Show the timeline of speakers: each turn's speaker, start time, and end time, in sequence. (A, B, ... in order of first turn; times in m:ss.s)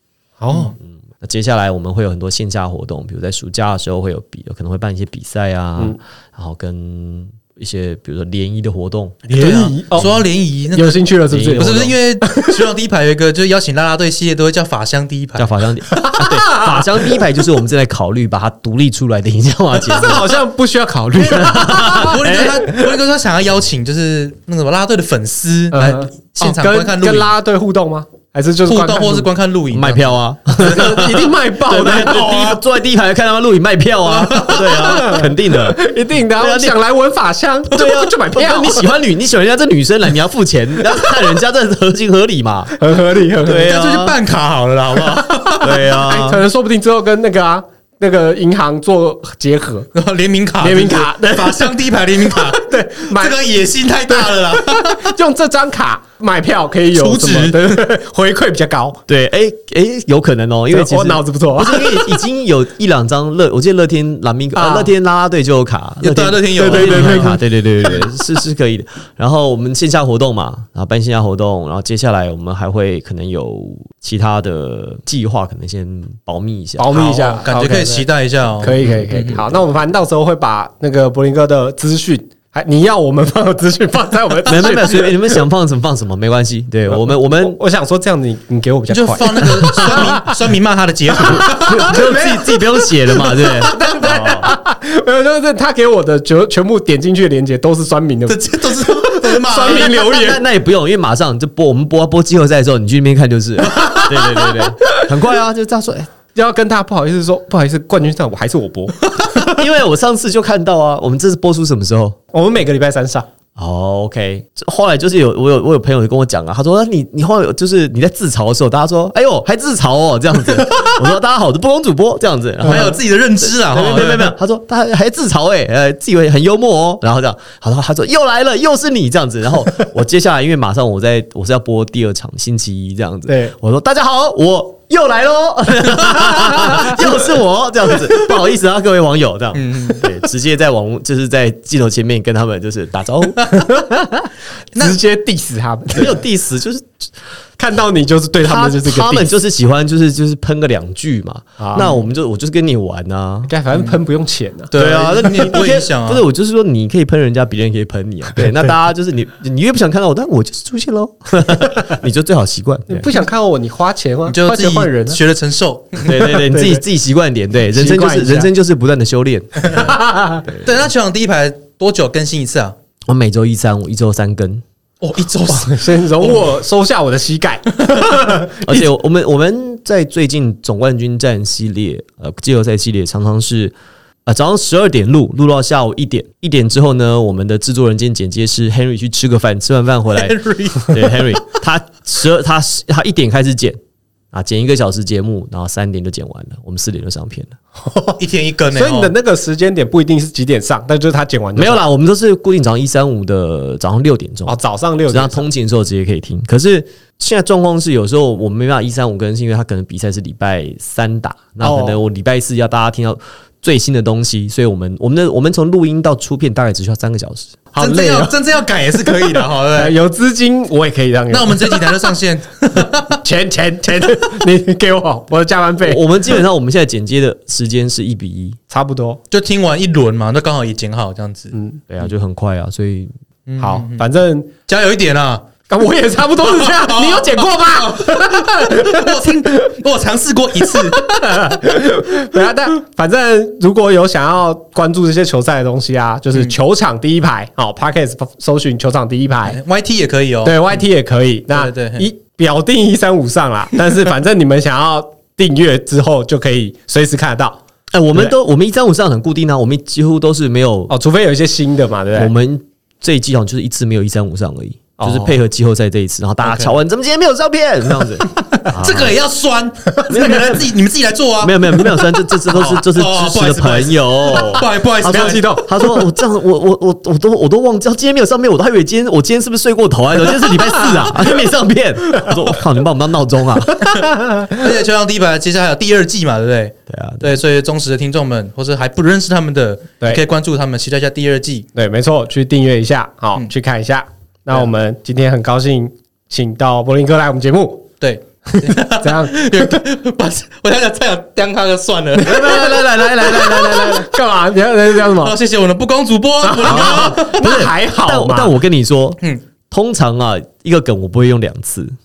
0:00.4-0:00.7 A
0:00.8-0:09.3 B
0:09.3-0:10.2 A
0:09.3-0:15.5 C
0:10.7-0:12.6 A
0:11.3-0:11.9 B
0:15.4-0:20.4 B
0:15.9-0:17.0 A
0:19.9-0:22.8 A
0:21.2-0:27.3 C
0:21.2-0:22.6 B
0:25.7-0:29.3 A
0:28.7-0:31.2 C
0:29.7-0:35.8 B
0:30.5-0:32.6 A
0:31.9-0:32.4 C
0:34.2-0:34.9 C
0:34.6-0:38.9 A
0:36.4-0:36.8 B
0:37.7-0:42.8 B
0:42.8-0:43.8 A
0:43.4-0:44.2 B
0:43.6-0:46.0 C
0:45.6-0:46.4 B
0:45.8-0:49.9 A
0:49.9-0:55.1 C
0:50.6-0:51.7 A
0:52.3-0:53.4 A
0:54.1-0:59.0 A
0:56.9-0:57.8 C
0:59.1-1:17.0 B
1:00.7-1:02.2 A
1:04.6-1:04.9 A
1:06.0-1:07.4 C
1:06.6-1:07.4 A
1:16.8-1:18.1 A
1:16.9-1:19.4 C
1:18.6-1:25.4 A
1:18.8-1:19.6 B
1:24.4-1:27.6 B
1:26.9-1:30.4 A
1:28.9-1:32.8 C
1:31.2-1:32.6 A
1:31.3-1:34.5 B
1:33.3-1:40.4 A
1:38.3-1:40.1 C
1:39.9-1:46.1 B
1:43.8-1:44.4 A
1:46.4-1:49.6 A
1:49.4-1:52.2 B
1:52.3-1:53.3 A
1:53.6-2:23.5 B
2:02.6-2:03.0 A
2:02.7-2:04.3 C
2:13.3-2:13.6 A
2:16.5-2:16.9 A
2:19.6-2:20.0 C
2:23.5-2:26.2 A
2:25.9-2:27.1 B
2:27.6-2:29.3 A
2:28.4-2:33.5 B
2:31.6-2:31.9 A
2:33.5-2:35.5 A
2:33.7-2:34.0 C
2:34.7-2:36.2 C
2:34.8-2:43.1 B
2:42.9-2:45.2 A
2:44.3-2:46.3 C
2:46.0-2:50.8 B
2:46.2-2:46.8 A
2:47.7-2:48.5 A
2:49.7-2:50.4 A
2:50.5-2:52.8 C
2:53.1-2:54.6 B
2:55.0-2:56.6 C
2:55.5-2:58.8 A
2:58.6-3:03.8 B
3:04.3-3:13.8 B
3:10.2-3:11.4 C
3:14.3-3:17.6 B
3:17.8-3:18.2 A
3:18.2-3:19.1 C
3:18.7-3:21.8 A
3:21.6-3:24.6 B
3:24.5-3:25.4 A
3:25.1-3:37.6 B
3:31.6-3:32.0 A
3:37.7-3:38.3 A
3:37.8-3:40.0 C
3:39.7-3:42.1 A
3:41.3-3:43.2 C
3:43.1-3:46.1 A
3:45.8-3:48.6 B
3:48.7-3:49.2 A
3:49.3-3:51.6 C
3:51.5-3:51.8 A
3:51.9-3:53.1 B
3:53.5-3:54.0 C
3:53.6-3:54.5 A
3:54.7-3:55.4 C
3:55.7-3:59.7 A
3:56.4-4:01.2 C
4:00.6-4:09.6 A
4:09.5-4:10.8 C
4:10.4-4:17.6 A
4:11.5-4:12.1 C
4:17.9-4:20.9 B
4:20.9-4:22.3 A
4:22.2-4:29.2 B
4:25.0-4:25.4 A
4:26.4-4:26.8 C
4:28.5-4:31.9 C
4:30.1-4:30.7 B
4:31.4-4:44.0 B
4:32.4-4:35.6 C
4:35.1-4:35.7 A
4:43.9-4:44.6 A
4:44.0-4:51.7 C
4:46.9-4:47.4 B
4:51.8-4:57.9 A
4:58.0-5:04.0 C
4:58.5-4:59.8 A
5:02.2-5:05.4 A
5:02.2-5:04.0 B
5:05.0-5:07.4 C
5:06.4-5:08.6 A
5:06.7-5:12.0 B